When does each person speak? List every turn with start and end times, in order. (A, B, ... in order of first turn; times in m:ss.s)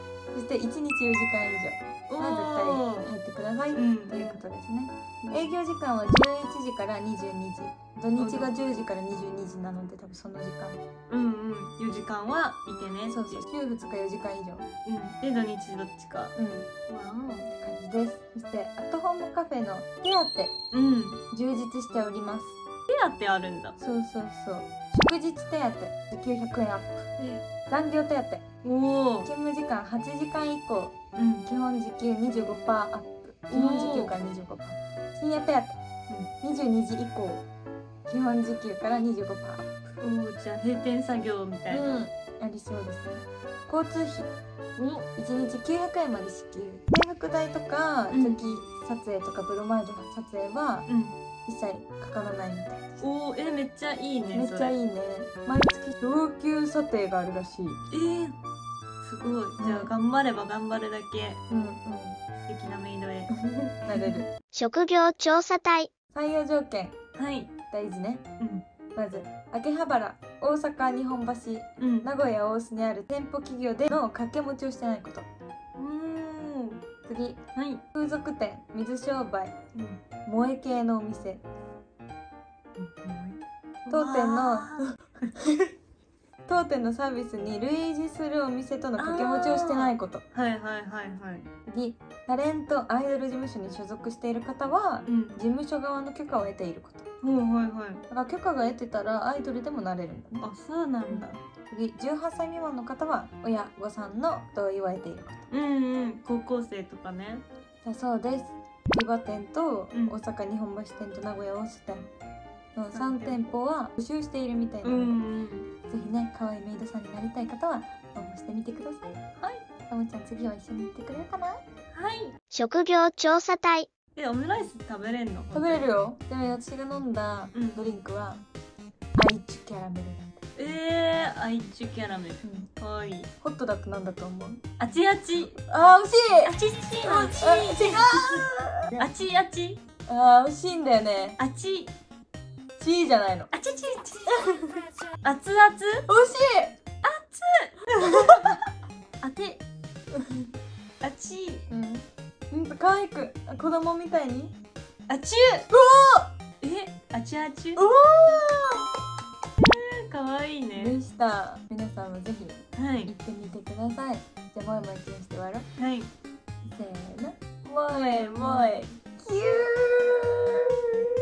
0:00.3-0:10.8 A
0:02.1-0:03.1 B
0:03.7-0:04.4 B
0:05.2-0:05.5 B
0:08.2-0:08.5 B
0:11.1-0:13.4 B
0:13.1-0:14.7 A
0:14.8-0:16.3 B
0:16.4-0:16.7 A
0:16.9-0:17.5 B
0:17.5-0:20.5 A
0:20.7-0:21.2 B
0:21.3-0:22.6 A
0:22.9-0:23.8 B
0:23.8-0:27.1 A
0:27.2-0:27.4 B
0:27.7-0:28.4 A
0:28.6-0:29.3 B
0:29.2-0:30.9 A
0:31.2-0:31.4 B
0:31.4-0:35.8 A
0:33.5-0:34.2 B
0:36.4-0:37.4 A
0:38.0-0:39.7 A
0:40.0-0:42.0 B
0:41.7-0:44.3 A
0:44.8-0:45.1 B
0:45.2-0:50.9 A
0:48.1-0:48.4 B
0:50.9-0:51.1 B
0:51.4-0:53.1 A
0:53.0-0:54.8 B
0:54.3-0:57.8 A
0:57.9-0:58.4 B
0:59.0-1:01.4 B
0:59.6-0:59.9 A
1:01.5-1:02.2 A
1:02.4-1:03.3 B
1:03.3-1:04.2 A
1:03.9-1:04.2 B
1:04.5-1:05.9 C
1:06.1-1:06.9 A
1:07.2-1:07.5 B
1:07.7-1:08.2 A
1:08.4-1:08.6 B
1:08.9-1:15.3 A
1:11.8-1:12.1 B
1:15.8-1:16.8 B
1:17.0-1:17.4 A
1:17.5-1:17.8 B
1:17.9-1:19.5 A
1:19.7-1:20.0 B
1:20.2-1:21.4 A
1:22.8-1:24.9 B
1:23.9-1:25.7 A
1:26.5-1:30.2 A
1:29.0-1:31.4 B
1:31.6-1:37.0 A
1:35.1-1:35.4 B
1:37.2-1:38.0 B
1:38.1-1:40.5 A
1:40.4-1:41.4 B
1:41.1-1:45.5 A
1:45.5-1:47.4 B
1:47.8-1:52.1 A
1:49.9-1:50.2 B
1:52.7-1:55.2 A
1:52.9-1:53.4 B
1:54.8-1:55.7 B
1:55.9-1:59.2 A
1:59.4-1:59.6 B
1:59.9-2:01.6 A
2:01.9-2:02.4 B
2:02.5-2:03.9 C
2:04.1-2:05.9 B
2:05.5-2:08.4 A
2:07.5-2:08.0 B
2:09.2-2:10.4 A
2:10.6-2:13.3 B
2:12.4-2:12.7 A
2:13.4-2:14.6 A
2:14.8-2:15.6 B
2:15.6-2:19.0 A
2:16.4-2:19.8 B
2:20.1-2:21.4 A
2:21.4-2:21.9 B
2:22.8-2:23.5 A
2:23.5-2:24.5 B
2:24.4-2:24.8 A
2:25.2-2:26.1 B
2:26.1-2:26.8 A
2:27.0-2:28.4 B
2:28.1-2:28.6 A
2:29.2-2:29.6 B
2:30.2-2:30.4 A
2:31.0-2:31.7 B
2:31.7-2:34.5 A
2:35.1-2:35.7 B
2:35.7-2:36.3 A
2:36.6-2:37.8 B
2:37.8-2:38.8 A
2:39.6-2:41.0 B
2:40.8-2:45.7 A
2:42.8-2:43.1 B
2:45.8-2:46.1 B
2:46.6-2:50.6 A
2:48.1-2:48.9 B